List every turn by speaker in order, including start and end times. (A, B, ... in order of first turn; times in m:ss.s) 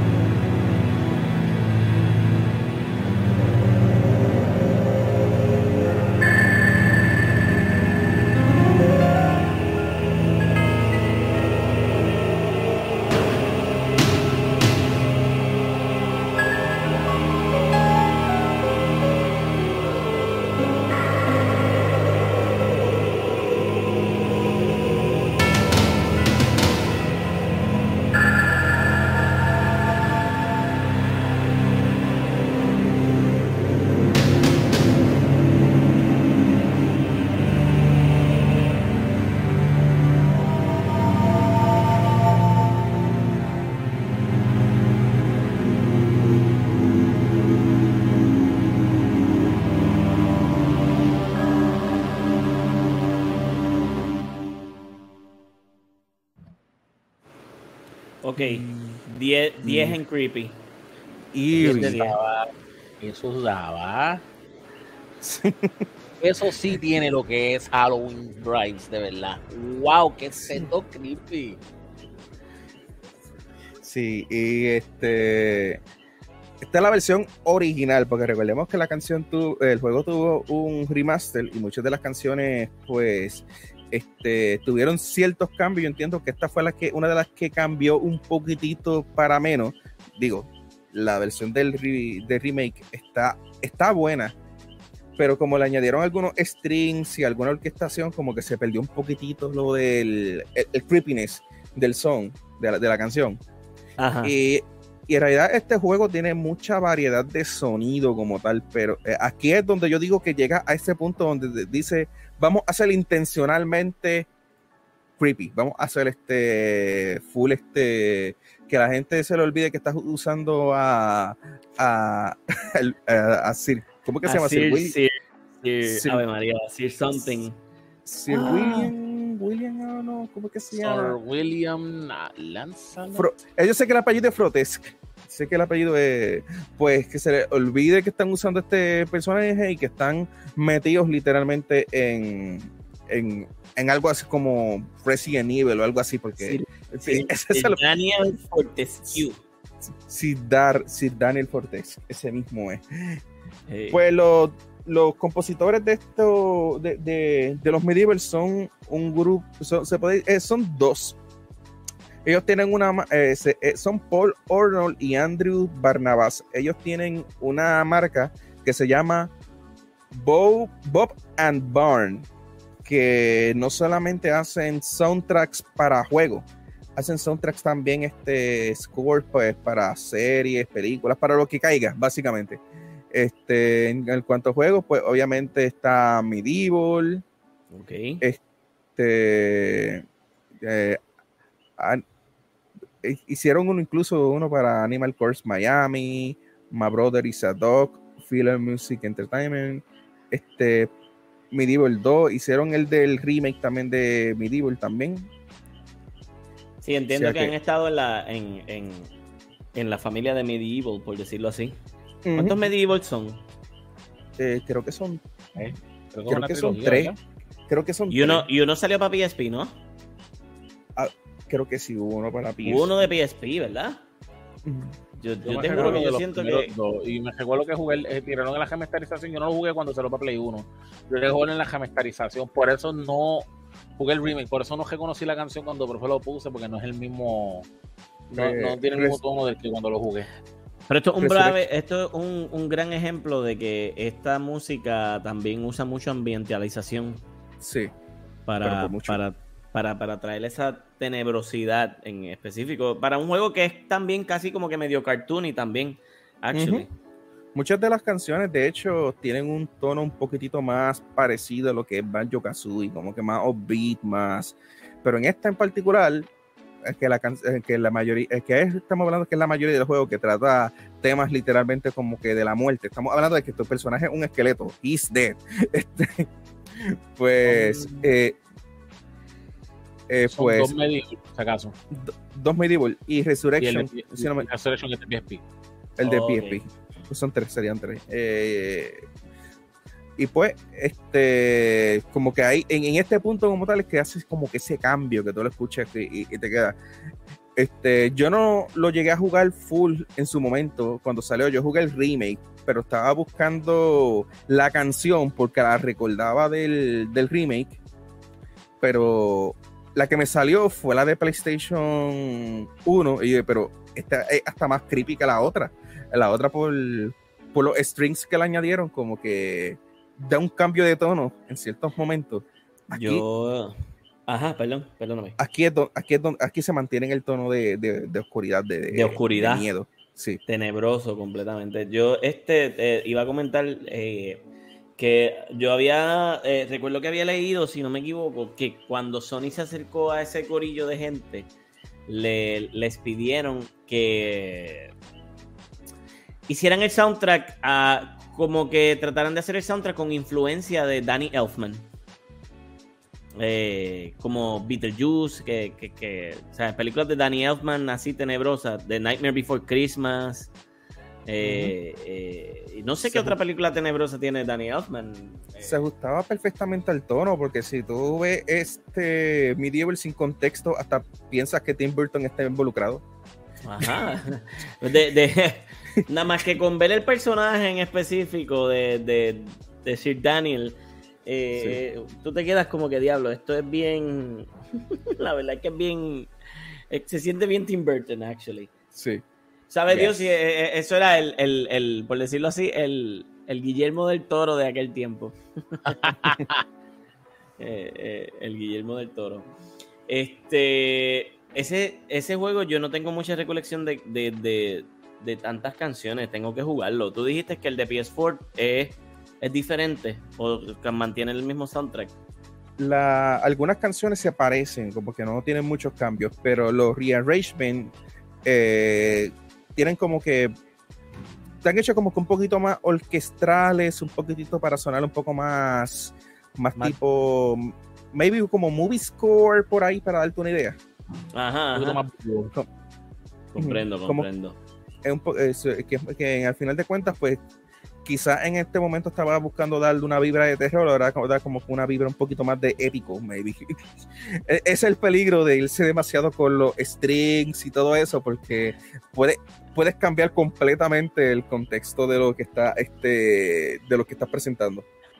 0:58.2-1:00.6 A
0:58.4-0:59.0 B
0:59.6-1:00.0 B
1:01.3-1:02.0 B
1:01.5-1:04.2 C
1:01.6-1:02.2 A
1:05.2-1:05.9 B
1:06.2-1:11.6 C
1:13.8-1:15.8 B
1:16.6-1:34.4 B
1:35.2-1:43.4 B
1:44.0-1:44.3 A
1:44.2-1:54.3 B
1:55.2-2:05.0 B
2:04.2-2:07.6 A
2:05.8-2:06.2 B
2:08.0-2:11.2 B
2:08.3-2:08.9 A
2:10.8-2:13.3 C
2:13.2-2:27.8 B
2:26.4-2:29.4 A
2:30.0-2:33.2 B
2:33.7-2:34.0 A
2:33.9-2:41.2 B
2:42.2-2:49.3 B
2:50.1-2:52.3 B
2:52.8-3:02.6 B
3:03.1-3:07.2 B
3:07.7-3:08.2 A
3:09.0-3:10.0 B
3:10.6-3:11.0 B
3:11.8-3:12.0 B
3:13.0-3:20.9 B
3:21.5-3:25.3 B
3:26.8-3:29.1 A
3:27.1-3:27.6 B
3:29.7-3:31.8 A
3:32.2-3:32.6 B
3:32.3-3:33.4 A
3:34.4-3:35.2 B
3:35.6-3:37.2 C
3:36.3-3:37.1 B
3:37.7-3:38.4 B
3:38.1-3:39.7 A
3:41.0-3:42.9 B
3:42.6-3:44.0 A
3:44.6-3:45.0 B
3:45.2-3:46.7 A
3:45.4-3:57.7 C
3:58.3-4:00.3 C
3:58.3-3:59.2 B
4:00.9-4:07.2 A
4:01.2-4:01.6 B
4:07.6-4:07.9 B
4:08.5-4:16.9 A
4:08.6-4:09.2 B
4:16.5-4:16.8 B
4:17.5-4:26.3 B
4:26.8-4:38.4 B
4:37.4-4:38.1 C
4:40.1-4:40.7 B
4:40.3-4:41.8 C
4:41.9-4:44.5 B
4:43.6-4:45.4 C
4:46.0-4:49.1 B
4:46.0-4:46.6 A
4:50.2-4:56.8 B
4:57.6-5:07.8 B
5:08.8-5:23.2 B
5:22.9-5:25.4 A
5:25.4-5:30.4 B
5:28.9-5:29.7 A
5:30.5-5:34.4 A
5:35.0-5:41.5 A
5:42.1-5:44.9 A
5:46.5-5:51.8 A
5:53.4-6:00.5 A
6:01.2-6:05.8 A
6:01.4-6:01.7 B
6:03.1-6:03.4 B
6:05.6-6:13.0 B
6:13.6-6:26.3 A
6:26.9-6:28.7 A
6:28.9-6:29.2 B
6:29.7-6:36.2 A
6:29.9-6:30.1 C
6:35.8-6:36.6 C
6:37.6-6:39.5 A
6:40.1-6:52.1 A
6:52.8-7:00.5 B
7:01.6-7:10.8 B
7:11.3-7:12.0 A
7:11.7-7:12.5 C
7:13.5-7:14.6 A
7:13.6-7:14.3 B
7:15.0-7:17.4 B
7:18.0-7:34.8 B